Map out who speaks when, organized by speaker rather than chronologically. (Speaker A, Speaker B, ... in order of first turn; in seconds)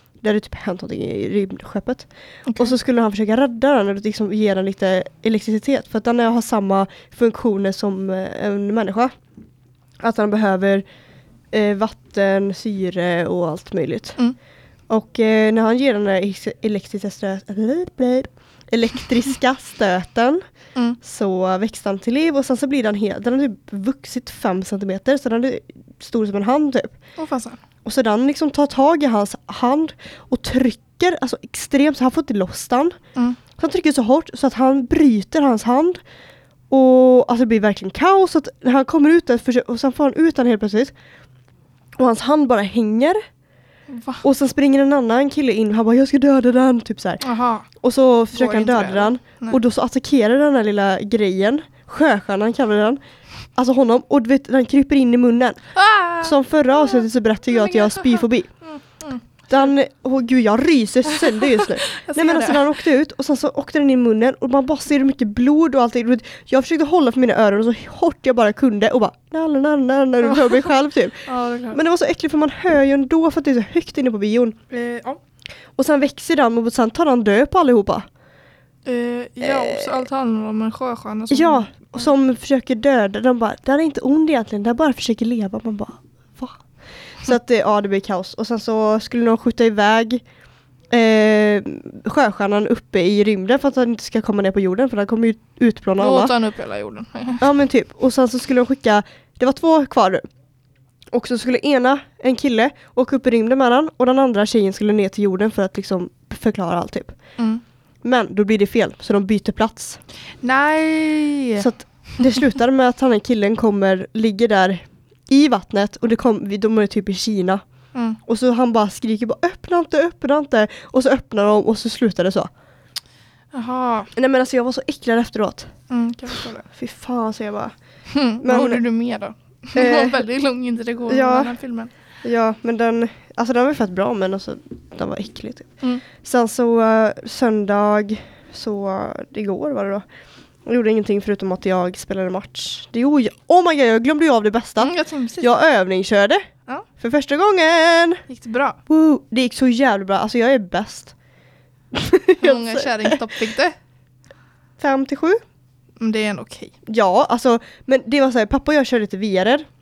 Speaker A: 0.2-9.1, 10.0-10.8, 11.5-14.2, 14.9-20.4, 21.0-26.9, 27.8-33.0, 33.6-36.0, 36.7-40.9, 42.0-43.2, 44.2-53.0, 53.5-55.6, 56.2-58.5, 59.5-74.6, 75.8-78.1, 79.4-79.9, 81.3-86.6, 87.2-90.2, 90.9-96.3, 97.4-100.2, 101.1-107.2, 108.0-110.0, 111.6-117.6, 118.2-122.5, 124.1-125.7, 126.7-127.7, 128.4-128.8, 129.7-130.2, 131.1-131.5, 132.2-140.0, 140.7-146.4, 147.0-148.2, 148.9-151.1, 151.9-153.2, 154.8-155.4, 156.8-159.7
Speaker B: 2.5-2.7, 27.2-27.6, 43.9-44.2, 47.2-47.7, 48.3-49.6, 55.7-59.2, 61.1-62.6, 71.2-71.8, 74.7-75.2, 78.8-82.0, 96.0-97.5, 110.4-111.7, 117.9-118.2, 123.5-124.1, 125.9-126.7, 128.1-131.9, 144.8-145.6, 148.3-148.8, 152.4-153.7, 156.0-156.7